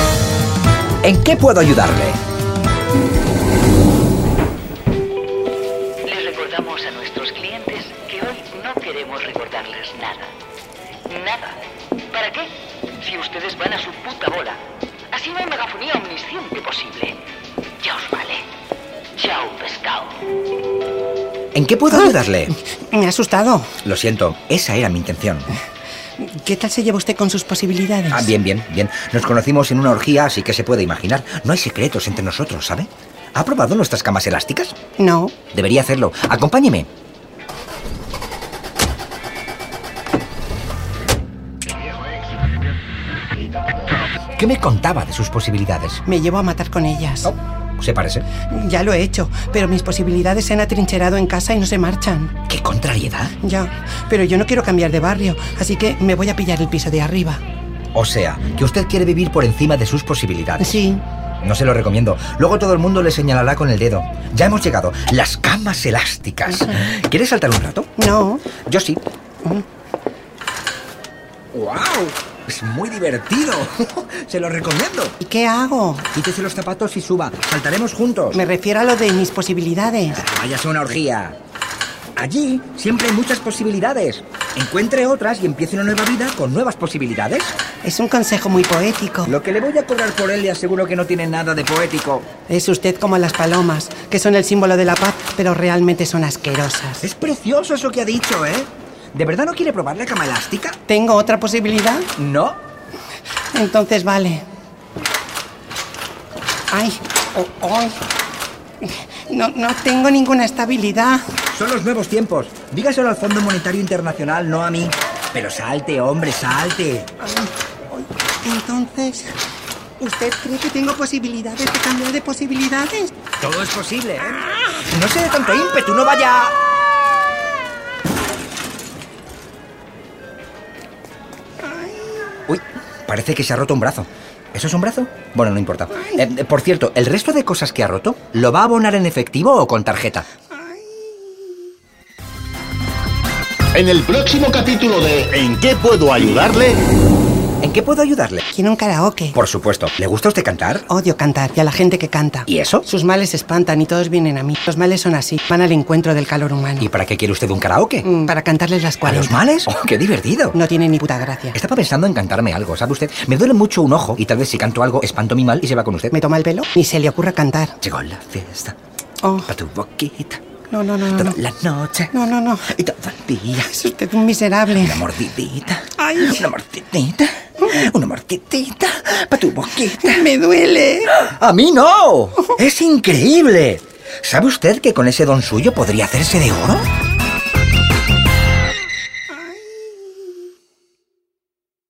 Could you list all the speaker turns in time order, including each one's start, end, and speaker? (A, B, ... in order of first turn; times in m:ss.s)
0:01.0-0:02.2 A
0:06.0-0:10.3 B
0:11.1-0:11.6 B
0:12.1-0:14.6 B
0:15.1-0:17.2 B
0:17.8-0:18.5 B
0:19.2-0:20.2 B
0:21.5-0:22.6 A
0:21.9-0:22.2 C
0:22.7-0:23.8 C
0:23.8-0:25.5 A
0:26.2-0:28.3 C
0:28.1-0:34.8 A
0:35.0-0:35.4 C
0:35.5-0:36.9 A
0:44.4-0:46.0 A
0:46.1-0:47.4 C
0:47.8-0:48.3 A
0:48.5-0:52.4 C
0:52.5-0:53.4 A
0:53.4-0:57.4 C
0:57.9-1:00.9 A
1:00.6-1:01.0 C
1:01.4-1:07.9 A
1:06.5-1:06.8 C
1:08.0-1:08.5 C
1:08.6-1:09.0 A
1:11.5-1:15.2 A
1:15.2-1:16.1 C
1:16.1-1:18.4 A
1:18.3-1:20.2 C
1:20.1-1:21.4 A
1:22.2-1:27.6 A
1:27.8-1:29.4 C
1:29.3-1:32.3 A
1:32.5-1:37.1 C
1:37.0-1:40.8 A
1:40.9-1:42.1 C
1:42.2-1:42.6 A
1:43.5-1:44.4 C
1:46.7-1:48.0 C
1:48.8-1:51.2 C
1:51.5-1:57.1 A
1:57.2-1:59.3 C
2:00.0-2:03.1 C
2:03.4-2:06.6 A
2:12.5-2:20.3 A
2:23.7-2:26.8 D
2:27.6-2:28.4 A
2:28.5-2:29.4 C
2:29.4-2:30.9 A
2:30.9-2:36.9 C
2:32.5-2:32.8 A
2:36.8-2:38.1 A
2:38.0-2:39.4 C
2:39.0-2:40.6 A
2:40.5-2:41.6 C
2:41.5-2:46.2 A
2:46.1-2:47.8 C
2:47.8-2:48.8 A
2:49.2-2:49.5 C
2:49.5-2:50.4 A
2:50.7-2:51.4 C
2:51.1-2:52.1 A
2:52.1-2:52.7 C
2:52.7-2:53.7 A
2:53.6-2:55.0 C
2:54.7-3:00.3 A
2:56.0-2:56.4 C
2:59.9-3:01.2 C
3:01.1-3:06.9 A